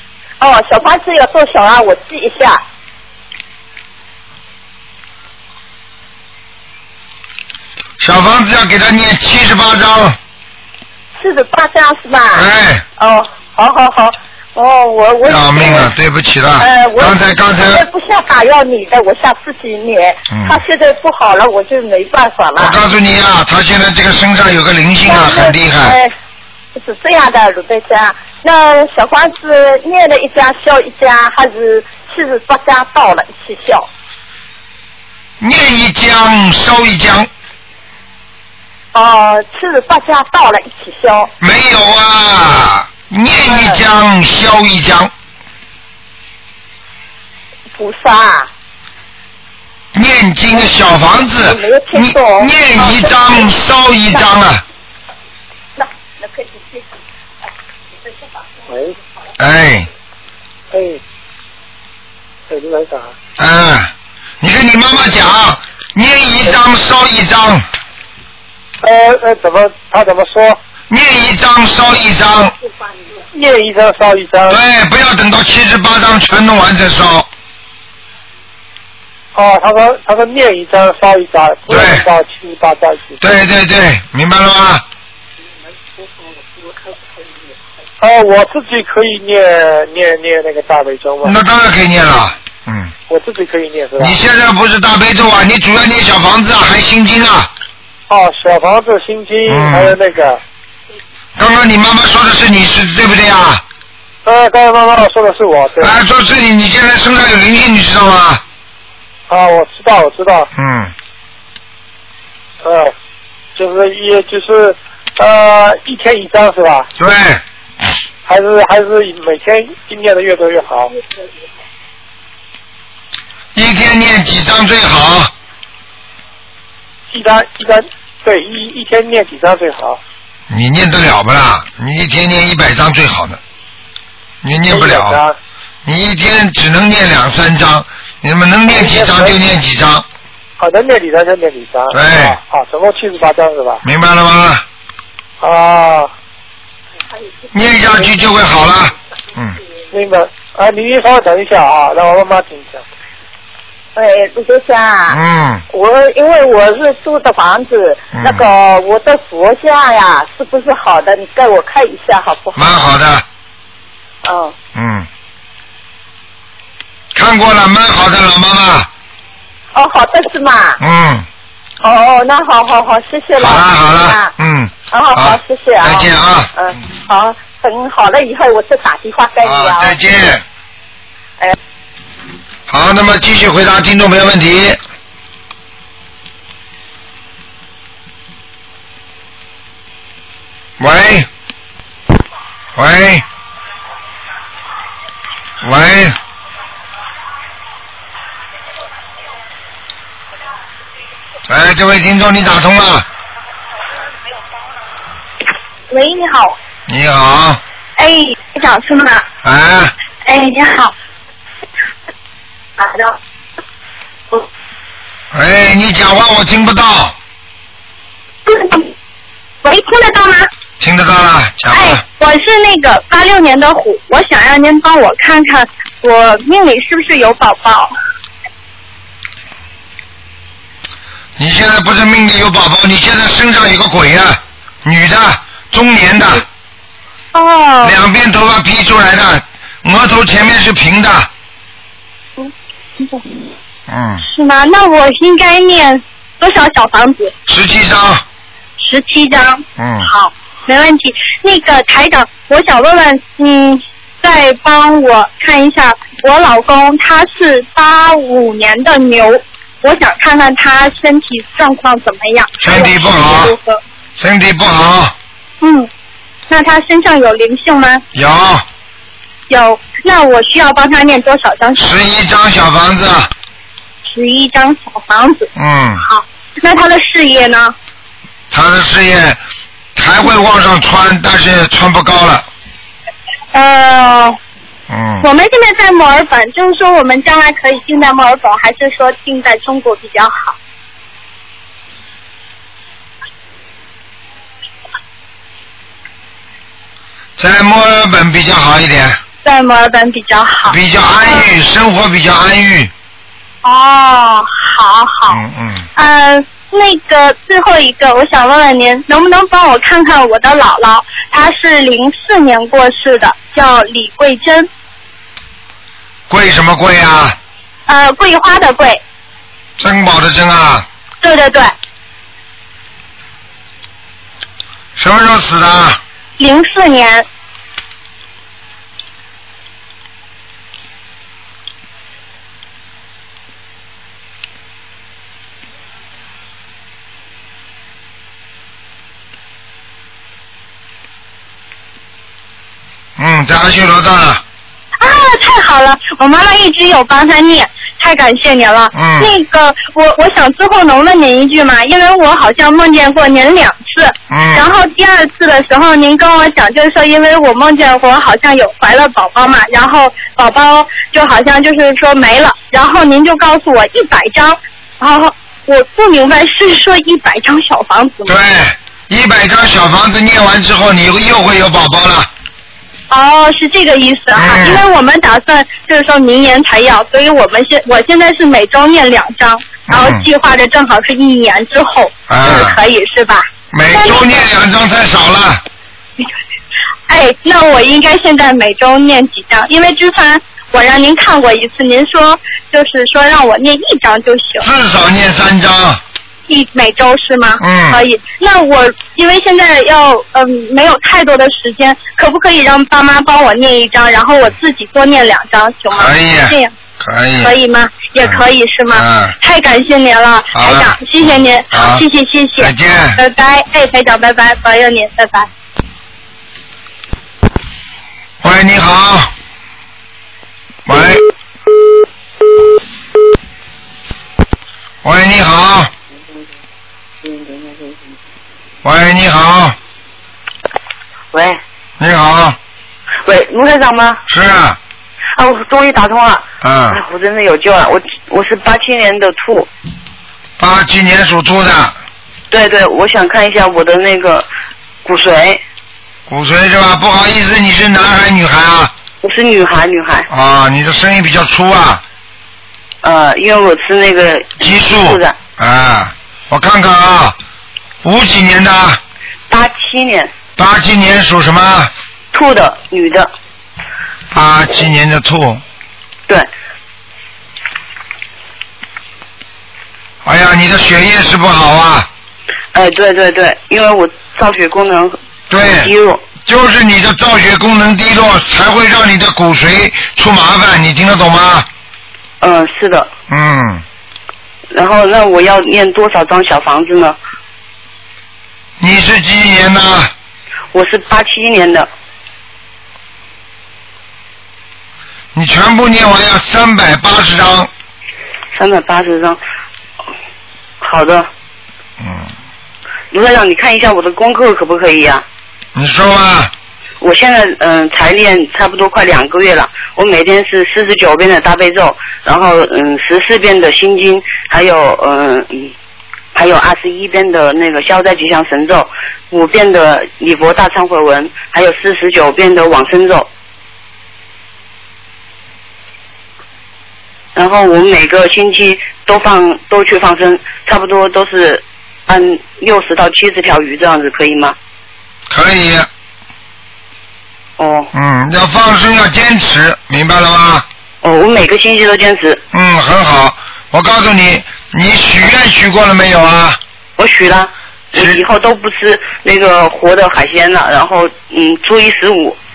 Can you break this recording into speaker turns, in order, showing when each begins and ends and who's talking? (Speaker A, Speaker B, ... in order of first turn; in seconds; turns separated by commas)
Speaker A: 0.4-2.6, Speaker B: 8.0-10.2, Speaker A: 11.2-12.5, Speaker B: 12.3-12.8, Speaker A: 13.0-15.9, Speaker B: 15.2-17.8, Speaker A: 16.6-22.8, Speaker B: 20.3-20.6, Speaker B: 22.6-25.9, Speaker A: 25.1-26.1, Speaker A: 26.8-33.9, Speaker B: 35.4-37.3, Speaker A: 38.9-41.3, Speaker B: 41.4-45.1, Speaker A: 43.5-43.8, Speaker A: 47.7-48.5, Speaker B: 49.9-54.6, Speaker A: 51.4-53.4, Speaker A: 55.8-56.8, Speaker C: 58.7-58.9, Speaker B: 59.4-59.9, Speaker C: 60.7-61.0, Speaker C: 62.5-63.1, Speaker B: 63.4-67.6, Speaker C: 68.8-70.6, Speaker B: 70.9-72.5, Speaker C: 73.3-74.6, Speaker B: 74.5-77.3, Speaker C: 79.3-83.2, Speaker B: 81.7-82.0, Speaker B: 83.2-84.8, Speaker C: 88.0-91.3, Speaker B: 91.2-92.9, Speaker C: 93.1-94.2, Speaker B: 94.0-97.5, Speaker C: 98.1-100.4, Speaker B: 99.5-99.9, Speaker B: 101.4-103.6, Speaker C: 104.2-106.0, Speaker B: 105.8-108.4, Speaker C: 109.3-110.5, Speaker B: 110.5-110.9, Speaker C: 112.6-112.9, Speaker C: 113.5-116.9, Speaker B: 117.0-117.4, Speaker C: 118.2-120.9, Speaker B: 123.5-125.3, Speaker C: 127.1-130.0, Speaker B: 130.5-133.4, Speaker B: 134.4-135.2, Speaker C: 134.7-135.3, Speaker B: 135.8-140.1, Speaker C: 138.7-139.3, Speaker C: 140.6-143.8, Speaker B: 141.9-142.3, Speaker B: 143.8-144.6, Speaker C: 145.4-146.1, Speaker B: 147.5-149.6, Speaker C: 149.9-152.8, Speaker A: 153.9-155.2, Speaker B: 155.1-155.6, Speaker A: 155.7-162.8, Speaker B: 158.1-158.4, Speaker B: 162.6-163.2, Speaker A: 164.2-164.5, Speaker B: 164.7-165.1, Speaker B: 167.1-168.9, Speaker A: 169.7-170.8, Speaker B: 170.8-171.3, Speaker A: 171.8-174.3, Speaker B: 173.4-176.5, Speaker A: 174.9-180.0, Speaker B: 179.4-180.4, Speaker B: 182.7-184.8, Speaker B: 190.8-191.3, Speaker B: 192.7-193.2, Speaker B: 195.6-196.2, Speaker B: 201.5-203.1, Speaker D: 205.9-206.6, Speaker B: 206.9-207.6, Speaker D: 208.0-209.2, Speaker B: 209.4-209.9, Speaker D: 210.2-210.9, Speaker B: 215.3-217.1, Speaker D: 218.4-218.9, Speaker D: 219.6-220.5, Speaker B: 220.8-222.0, Speaker D: 221.7-227.9, Speaker B: 231.4-236.4, Speaker D: 237.3-237.9, Speaker B: 237.8-241.3, Speaker D: 242.4-243.2, Speaker B: 243.9-244.2, Speaker D: 244.2-247.3, Speaker B: 247.5-248.2, Speaker D: 248.8-263.8, Speaker B: 249.8-250.1, Speaker B: 262.6-263.5, Speaker B: 264.2-265.1, Speaker D: 265.6-265.9, Speaker D: 266.5-268.0, Speaker B: 268.1-268.6, Speaker D: 269.5-271.9, Speaker B: 271.8-273.3, Speaker D: 274.0-275.5, Speaker B: 275.6-276.0, Speaker D: 276.0-277.7, Speaker B: 278.5-279.4, Speaker B: 279.9-282.4, Speaker D: 283.5-284.4, Speaker B: 284.9-285.2, Speaker D: 285.2-290.6, Speaker B: 297.4-299.2, Speaker D: 299.4-301.5, Speaker B: 300.6-302.9, Speaker D: 303.6-305.4, Speaker B: 305.3-305.9, Speaker D: 305.9-314.7, Speaker B: 316.3-317.4, Speaker D: 317.9-319.0, Speaker B: 319.8-320.9, Speaker D: 321.2-321.7, Speaker B: 324.9-326.0, Speaker D: 326.4-327.2, Speaker B: 343.2-344.4, Speaker D: 345.0-368.3, Speaker B: 348.9-349.3, Speaker B: 354.3-354.7, Speaker B: 368.2-372.3, Speaker D: 373.1-384.4, Speaker B: 374.3-374.8, Speaker B: 379.9-380.2, Speaker B: 382.3-382.8, Speaker B: 383.7-385.6, Speaker D: 387.1-394.7, Speaker B: 394.6-396.0, Speaker D: 396.5-406.7, Speaker B: 397.6-398.0, Speaker B: 405.9-407.6, Speaker D: 407.4-415.5, Speaker B: 408.2-409.4, Speaker B: 410.5-412.0, Speaker B: 412.6-413.2, Speaker B: 418.4-419.3, Speaker B: 420.9-421.2, Speaker B: 425.0-425.9, Speaker B: 428.8-429.8, Speaker E: 431.3-431.6, Speaker B: 432.0-432.6, Speaker E: 433.2-434.2, Speaker B: 434.3-434.8, Speaker E: 435.3-439.7, Speaker B: 436.6-437.0, Speaker B: 440.6-441.9, Speaker E: 442.5-444.5, Speaker E: 445.0-445.6, Speaker B: 446.3-448.9, Speaker E: 449.2-450.3, Speaker B: 450.3-452.0, Speaker E: 453.0-455.4, Speaker B: 454.6-457.4, Speaker B: 458.0-459.0, Speaker E: 459.5-460.3, Speaker B: 460.6-461.9, Speaker E: 462.3-463.3, Speaker B: 464.3-465.6, Speaker B: 470.2-472.1, Speaker E: 472.7-475.2, Speaker B: 475.5-481.7, Speaker E: 475.7-476.3, Speaker E: 482.4-483.1, Speaker B: 483.3-483.8, Speaker E: 484.7-487.2, Speaker B: 488.8-490.1, Speaker E: 490.7-491.9, Speaker B: 495.3-497.7, Speaker E: 498.5-499.4, Speaker E: 500.8-501.3, Speaker B: 502.0-502.3, Speaker E: 503.1-505.2, Speaker B: 505.7-506.5, Speaker E: 507.0-515.7, Speaker E: 516.3-523.3, Speaker E: 527.3-534.5, Speaker B: 535.3-535.9, Speaker E: 537.6-537.9, Speaker B: 537.9-540.6, Speaker E: 541.0-542.4, Speaker B: 542.5-546.6, Speaker E: 547.0-552.4, Speaker B: 547.9-548.2